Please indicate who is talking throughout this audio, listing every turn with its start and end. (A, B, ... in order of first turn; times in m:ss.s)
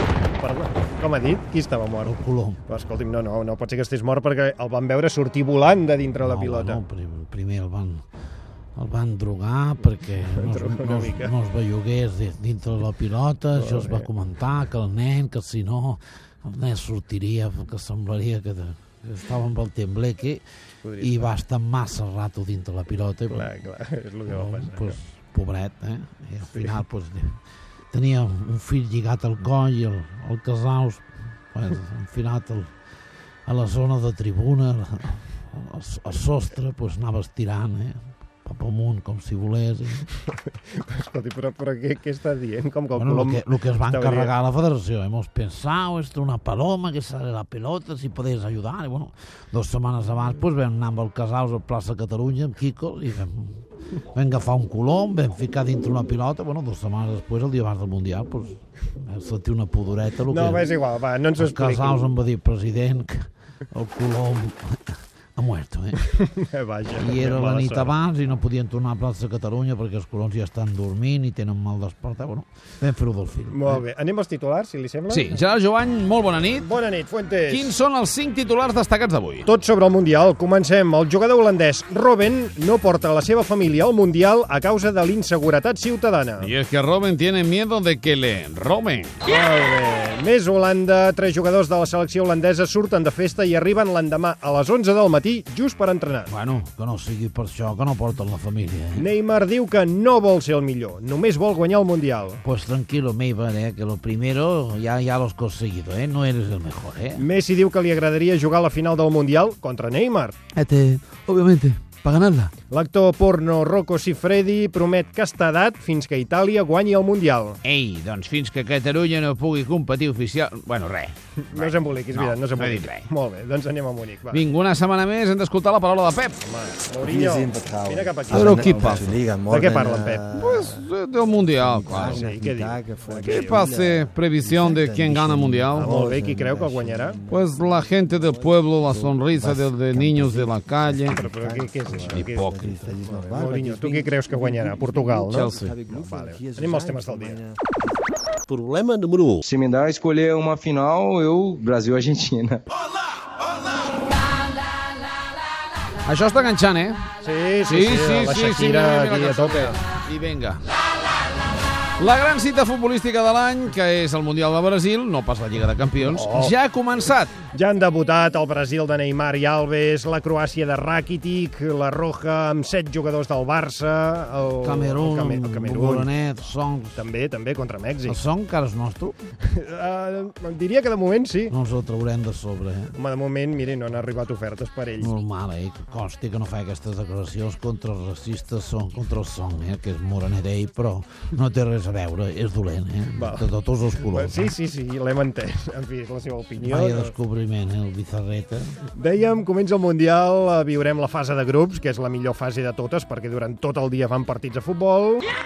0:00.4-0:06.8 A
0:02.0-0:02.6 B
0:06.2-0:08.0 B
0:08.8-0:20.4 B
0:10.2-0:11.3 A
0:13.5-0:14.1 A
0:20.8-0:21.3 A
0:21.0-0:23.6 B
0:23.3-0:25.0 A
0:24.3-0:27.4 B
0:26.5-0:26.8 A
0:27.9-0:32.7 B
0:33.4-0:40.0 B
0:40.1-0:44.3 A
0:42.9-0:53.6 B
0:54.1-1:00.6 B
1:00.3-1:02.1 A
1:01.4-1:06.0 B
1:06.2-1:07.9 A
1:07.0-1:13.8 B
1:13.5-1:15.3 A
1:15.1-1:16.6 C
1:16.6-1:17.7 A
1:17.5-1:19.5 C
1:19.4-1:26.5 A
1:26.4-1:29.2 C
1:29.2-1:36.3 A
1:36.3-1:39.0 B
1:38.9-1:42.4 A
1:42.4-1:47.2 B
1:47.2-1:50.4 A
1:50.6-1:52.5 C
1:52.7-1:57.6 A
1:57.6-2:03.0 C
2:01.5-2:04.4 A
2:04.3-2:06.4 C
2:06.4-2:10.3 A
2:07.0-2:10.9 D
2:08.3-2:09.2 C
2:10.3-2:12.3 C
2:11.4-2:27.9 D
2:11.9-2:13.7 A
2:13.2-2:16.1 C
2:15.7-2:17.2 A
2:17.3-2:21.2 C
2:21.1-2:27.4 A
2:22.1-2:22.8 C
2:25.3-2:25.8 C
2:28.5-2:29.4 D
2:29.4-2:32.6 E
2:36.0-2:37.0 C
2:37.2-2:39.8 A
2:37.6-2:40.6 C
2:42.0-2:47.3 C
2:46.0-2:46.6 A
2:47.5-2:56.1 A
2:54.6-2:57.0 B
2:57.0-2:58.2 A
2:58.0-2:59.2 B
2:59.4-3:01.5 A
3:01.5-3:02.9 B
3:02.9-3:05.1 A
3:05.0-3:14.5 B
3:13.1-3:13.5 A
3:14.0-3:17.1 A
3:16.6-3:18.8 B
3:18.9-3:25.3 A